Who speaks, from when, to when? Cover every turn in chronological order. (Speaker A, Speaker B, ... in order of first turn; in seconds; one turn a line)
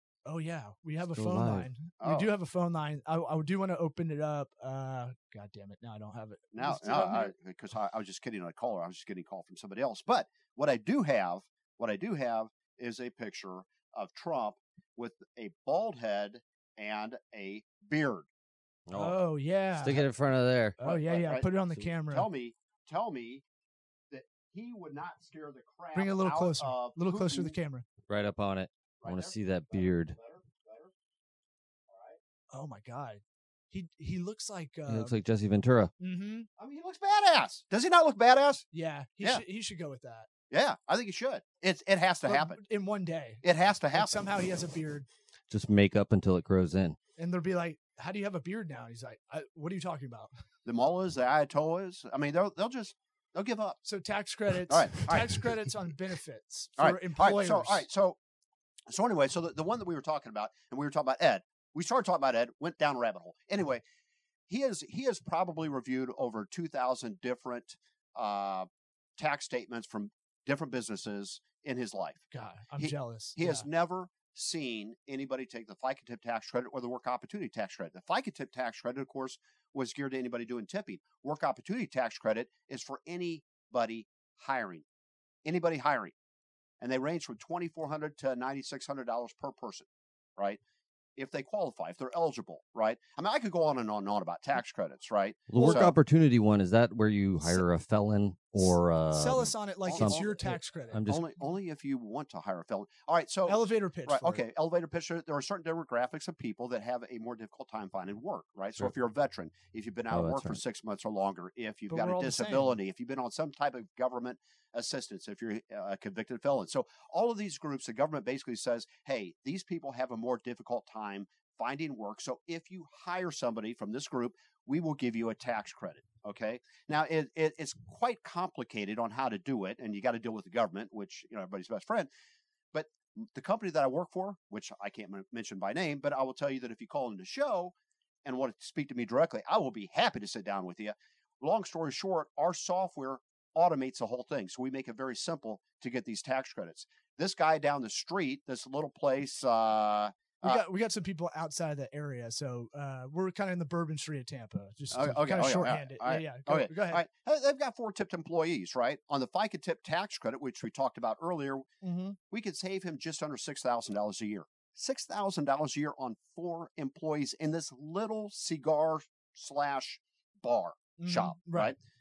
Speaker A: 0.2-7.3
Speaker B: 1.1-1.7
Speaker C: 2.0-2.3
Speaker C: 6.5-18.3
Speaker B: 18.9-20.8
Speaker A: 18.9-20.1
Speaker A: 20.8-22.3
Speaker C: 20.8-21.5
Speaker C: 22.1-23.4
Speaker C: 24.1-27.6
Speaker A: 25.9-27.9
Speaker B: 28.1-30.1
Speaker C: 29.0-30.9
Speaker C: 31.9-32.2
Speaker A: 32.5-35.2
Speaker B: 34.9-35.9
Speaker A: 36.0-36.5
Speaker C: 36.6-38.6
Speaker A: 38.7-40.3
Speaker C: 40.5-42.6
Speaker A: 42.2-45.1
Speaker C: 43.4-44.2
Speaker B: 45.5-47.0
Speaker A: 47.2-50.3
Speaker C: 50.6-53.8
Speaker A: 53.8-57.9
Speaker C: 54.7-55.5
Speaker C: 56.8-58.2
Speaker C: 58.9-63.8
Speaker C: 64.5-84.8
Speaker A: 72.3-73.6
Speaker C: 85.4-86.1
Speaker C: 86.8-90.6
Speaker C: 91.2-95.9
Speaker B: 95.5-101.2
Speaker A: 95.5-95.9
Speaker A: 99.1-101.0
Speaker C: 99.9-100.4
Speaker C: 101.1-132.1
Speaker A: 103.5-104.4
Speaker B: 110.1-110.6
Speaker A: 111.9-112.7
Speaker C: 132.7-137.7
Speaker C: 138.2-150.6
Speaker A: 150.4-157.0
Speaker C: 154.9-161.7
Speaker A: 161.8-162.2
Speaker C: 162.3-171.8
Speaker A: 171.0-171.7